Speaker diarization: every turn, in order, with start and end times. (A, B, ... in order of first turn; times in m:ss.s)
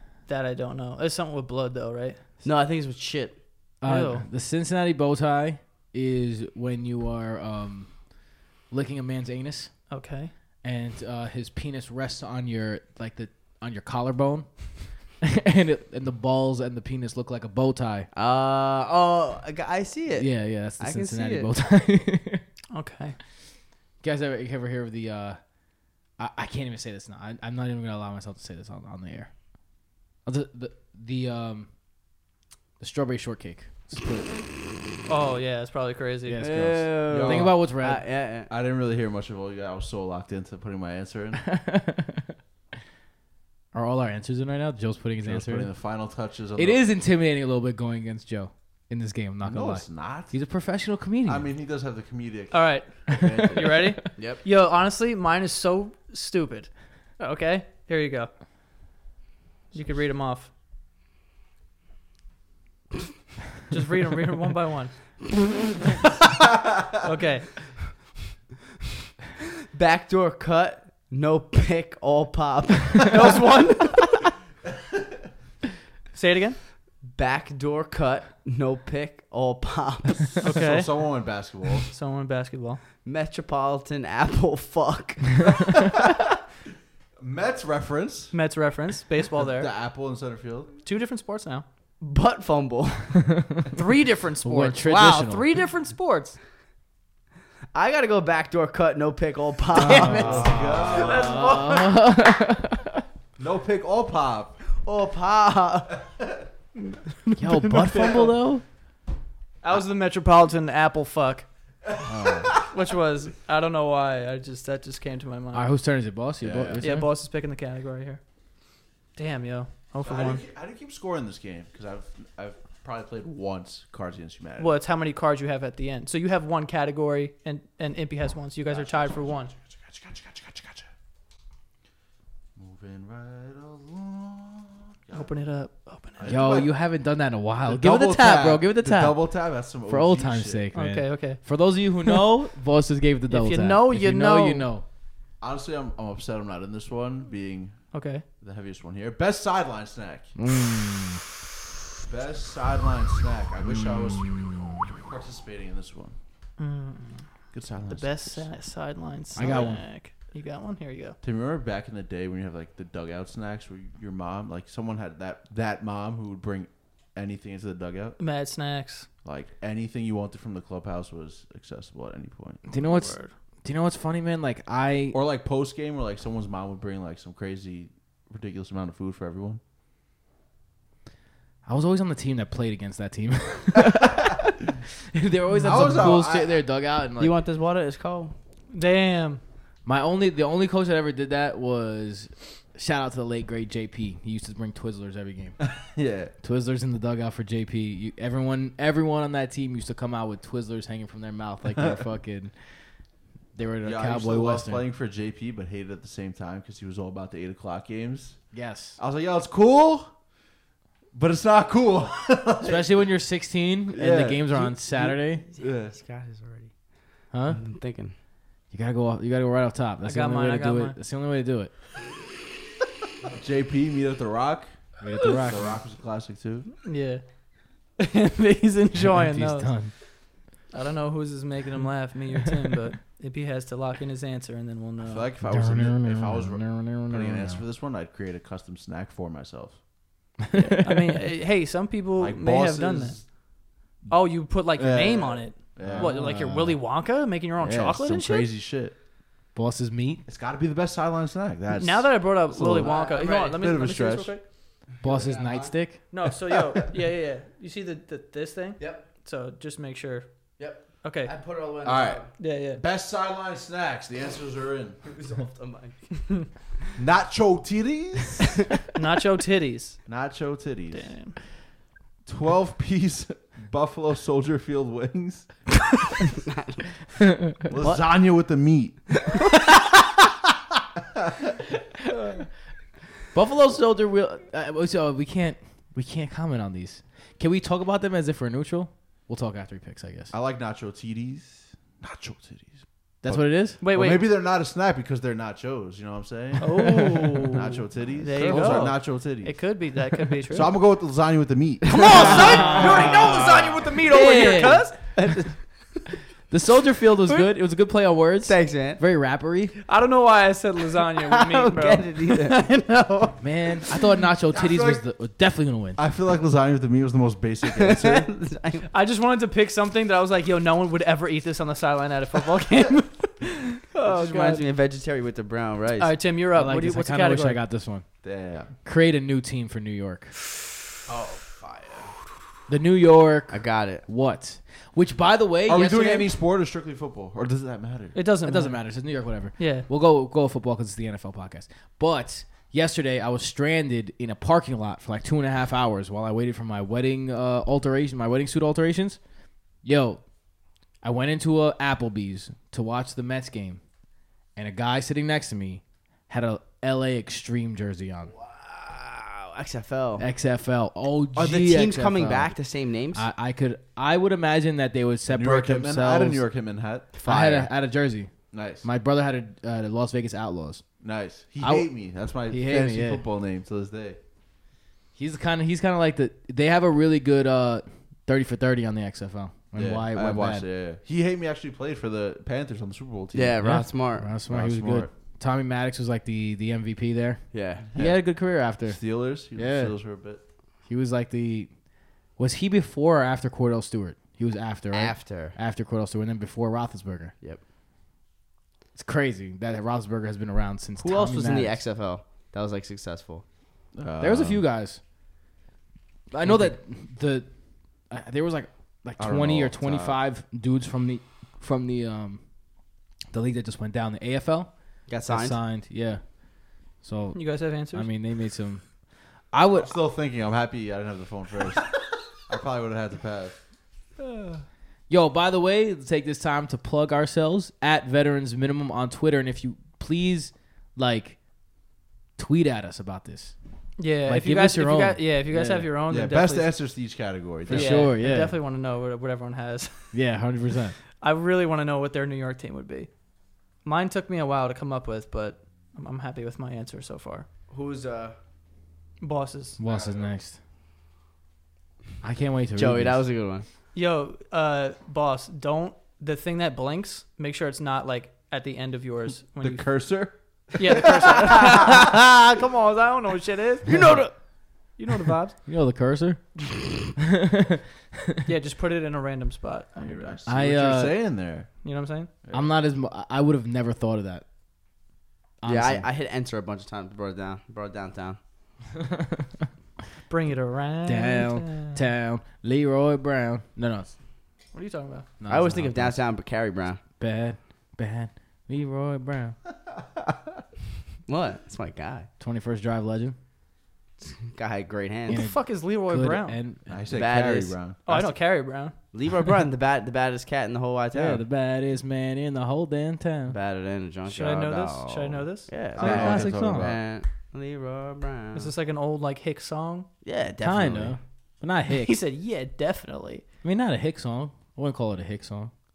0:00.3-0:02.2 A
0:02.4-0:03.4 B
0:03.8-0:07.9 C
0:03.8-0:04.3 A
0:08.7-0:09.7 C
0:09.9-0:10.3 A
0:10.6-0:14.5 C
0:15.2-0:18.1 C
0:18.1-0:21.5 B
0:20.1-0:22.5 C
0:22.7-0:23.2 A
0:24.0-0:25.4 C
0:26.2-0:29.3 C
0:30.2-0:31.7 C
0:32.8-0:34.4 C
0:35.1-0:36.4 A
0:36.3-0:38.0 C
0:36.4-0:38.5 B
0:37.1-0:37.6 D
0:38.5-0:41.4 D
0:41.4-0:42.4 C
0:43.7-0:45.7 C
0:45.2-0:46.8 D
0:46.6-0:51.5 C
0:49.4-0:50.3 D
0:51.2-0:53.9 D
0:52.5-0:58.3 A
0:53.1-0:53.9 C
0:54.2-0:54.4 B
0:59.7-1:00.5 A
1:03.7-1:04.9 A
1:07.0-1:07.5 A
1:09.7-1:13.6 B
1:13.1-1:14.2 A
1:16.1-1:16.6 A
1:17.1-1:20.4 B
1:20.4-1:21.9 D
1:20.4-1:20.9 A
1:21.9-1:22.8 A
1:23.0-1:25.6 B
1:27.2-1:28.3 D
1:28.3-1:29.7 A
1:29.4-1:30.7 D
1:30.8-1:31.6 A
1:32.0-1:33.3 B
1:33.3-1:33.7 C
1:33.7-1:36.4 A
1:34.4-1:35.5 C
1:37.7-1:40.6 B
1:39.8-1:43.0 C
1:39.9-1:41.9 A
1:40.1-1:41.7 D
1:43.4-1:44.6 D
1:44.8-1:46.0 B
1:46.8-1:48.3 A
1:47.4-1:48.6 C
1:49.6-1:51.5 A
1:52.0-1:52.6 C
1:52.2-1:52.6 D
1:52.6-1:55.7 A
1:55.5-1:57.1 C
1:56.4-1:56.9 D
1:56.8-1:58.2 A
1:59.2-2:00.4 A
2:00.0-2:04.8 D
2:04.6-2:09.5 A
2:08.7-2:10.9 D
2:12.6-2:15.3 D
2:15.1-2:16.4 A
2:16.2-2:16.8 D
2:16.3-2:19.2 C
2:17.7-2:20.7 D
2:19.9-2:24.8 C
2:20.7-2:21.4 A
2:23.3-2:24.7 A
2:25.4-2:27.8 D
2:27.9-2:28.2 A
2:28.4-2:30.4 D
2:30.4-2:31.2 C
2:32.0-2:34.3 D
2:33.6-2:34.9 C
2:35.0-2:36.2 D
2:36.6-2:37.2 A
2:37.5-2:38.5 D
2:37.9-2:41.2 A
2:39.4-2:39.8 C
2:39.4-2:39.7 D
2:41.2-2:48.2 D
2:48.2-2:49.1 A
2:49.2-2:52.6 D
2:52.7-2:55.2 C
2:52.8-2:53.3 A
2:55.1-2:59.6 D
3:01.7-3:04.6 C
3:05.1-3:07.4 C
3:05.6-3:06.6 D
3:07.2-3:08.4 B
3:08.7-3:09.4 A
3:09.8-3:15.6 C
3:15.6-3:16.3 D
3:16.4-3:22.5 C
3:23.6-3:24.8 C
3:23.8-3:28.4 D
3:28.5-3:29.0 C
3:29.0-3:30.1 D
3:31.1-3:33.0 D
3:32.6-3:35.4 C
3:33.9-3:36.0 D
3:35.5-3:36.7 B
3:37.3-3:37.6 C
3:37.5-3:38.1 B
3:38.7-3:41.7 C
3:40.0-3:41.0 A
3:43.3-3:44.7 D
3:45.0-3:45.8 C
3:45.4-3:46.7 D
3:46.8-3:47.2 A
3:48.0-3:49.7 A
3:49.0-3:49.9 C
3:50.7-3:55.3 A
3:55.0-3:59.8 D
3:55.4-3:57.6 C
4:00.5-4:01.2 C
4:00.5-4:03.2 A
4:02.2-4:03.2 D
4:04.1-4:08.5 A
4:04.8-4:06.1 D
4:05.8-4:06.8 C
4:07.6-4:09.0 D
4:09.6-4:10.2 C
4:10.3-4:14.3 D
4:11.8-4:14.4 A
4:12.8-4:13.2 B
4:15.0-4:15.7 B
4:15.0-4:16.1 C
4:16.1-4:20.3 A
4:18.8-4:19.0 B
4:20.6-4:22.3 B
4:21.0-4:21.3 A
4:21.8-4:25.0 D
4:22.4-4:22.8 A
4:25.0-4:26.5 B
4:27.0-4:28.6 D
4:28.9-4:30.0 A
4:30.1-4:31.1 D
4:30.9-4:31.4 A
4:32.3-4:35.5 D
4:36.4-4:36.8 B
4:37.7-4:39.6 D
4:37.8-4:38.0 B
4:43.3-4:50.3 C
4:50.3-4:59.6 D
4:53.2-4:53.8 C
4:53.8-4:54.3 A
4:56.6-4:57.6 A
4:56.8-4:57.3 C
4:58.2-5:00.7 A
4:58.4-4:58.9 C
5:00.5-5:02.8 D
5:01.9-5:03.2 B
5:01.9-5:05.0 A
5:02.2-5:05.0 C
5:05.2-5:05.5 B
5:06.5-5:09.8 C
5:08.5-5:09.0 B
5:09.9-5:13.4 A
5:11.2-5:12.7 B
5:13.4-5:16.0 C
5:14.5-5:15.0 D
5:16.0-5:18.3 D
5:17.7-5:18.9 B
5:18.9-5:24.6 A
5:24.0-5:26.2 B
5:26.0-5:27.6 A
5:26.5-5:28.1 C
5:28.2-5:28.7 D
5:28.8-5:30.3 C
5:31.1-5:32.1 D
5:32.7-5:36.3 C
5:33.5-5:34.0 B
5:35.7-5:38.2 D
5:38.2-5:38.8 A
5:38.4-5:49.2 C
5:39.6-5:39.9 A
5:49.8-5:50.2 C
5:51.0-5:53.8 C
5:54.6-5:58.3 C
5:58.4-6:00.3 B
6:00.2-6:02.5 C
6:01.4-6:03.3 B
6:03.1-6:06.4 C
6:05.3-6:07.1 D
6:07.2-6:07.7 B
6:07.2-6:08.3 C
6:08.5-6:08.8 D
6:08.8-6:10.8 C
6:11.0-6:14.2 D
6:11.6-6:11.9 C
6:12.5-6:13.2 C
6:15.2-6:20.6 C
6:19.8-6:23.7 D
6:23.3-6:24.3 B
6:23.6-6:27.4 C
6:24.5-6:25.1 D
6:27.5-6:27.9 B
6:27.9-6:29.0 C
6:27.9-6:28.2 D
6:28.8-6:30.4 D
6:29.5-6:29.9 C
6:30.9-6:31.7 C
6:32.4-6:37.3 C
6:34.9-6:35.6 B
6:39.0-6:41.8 C
6:41.0-6:43.4 B
6:44.0-6:44.6 D
6:44.2-6:45.0 C
6:46.3-6:47.5 C
6:46.4-6:46.7 B
6:48.1-6:52.4 C
6:49.2-6:50.2 D
6:53.3-6:54.7 C
6:55.1-6:55.6 B
6:55.2-6:56.2 C
6:57.0-6:58.9 C
6:57.3-6:58.1 A
6:59.5-6:59.9 C
6:59.8-7:03.6 D
7:04.2-7:04.6 A
7:05.1-7:11.4 C
7:12.4-7:13.5 C
7:14.0-7:16.7 A
7:14.3-7:15.9 C
7:16.1-7:18.1 D
7:17.7-7:18.6 C
7:17.7-7:20.2 A
7:20.1-7:21.0 C
7:21.2-7:23.1 A
7:23.8-7:27.5 A
7:27.7-7:28.4 B
7:29.2-7:29.8 A
7:29.8-7:30.6 C
7:29.9-7:30.3 D
7:32.2-7:33.2 C
7:32.8-7:33.6 B
7:34.0-7:39.9 A
7:39.6-7:41.7 D
7:40.8-7:43.9 A
7:43.9-7:44.4 B
7:45.0-7:45.6 A
7:45.7-7:46.6 C
7:47.2-7:48.4 C
7:48.5-7:50.3 A
7:50.0-7:51.7 D
7:50.5-7:51.2 C
7:51.8-7:52.3 A
7:52.5-7:54.4 C
7:55.6-7:56.1 C
7:55.7-7:58.4 B
7:59.0-7:59.6 C
8:00.3-8:02.0 A
8:01.1-8:04.1 C
8:04.7-8:05.3 A
8:05.4-8:06.2 C
8:05.5-8:07.0 B
8:07.2-8:09.6 C
8:11.3-8:12.3 B
8:12.4-8:13.4 C
8:14.2-8:15.5 B
8:15.3-8:16.9 C
8:15.3-8:16.6 A
8:16.9-8:18.3 D
8:17.1-8:17.8 B
8:18.1-8:18.9 A
8:19.1-8:21.4 B
8:21.1-8:23.6 C
8:23.5-8:28.7 B
8:24.3-8:25.7 A
8:26.0-8:27.0 D
8:26.0-8:26.9 C
8:28.5-8:30.1 A
8:30.2-8:31.2 B
8:30.6-8:32.2 C
8:32.0-8:33.4 A
8:33.6-8:35.7 C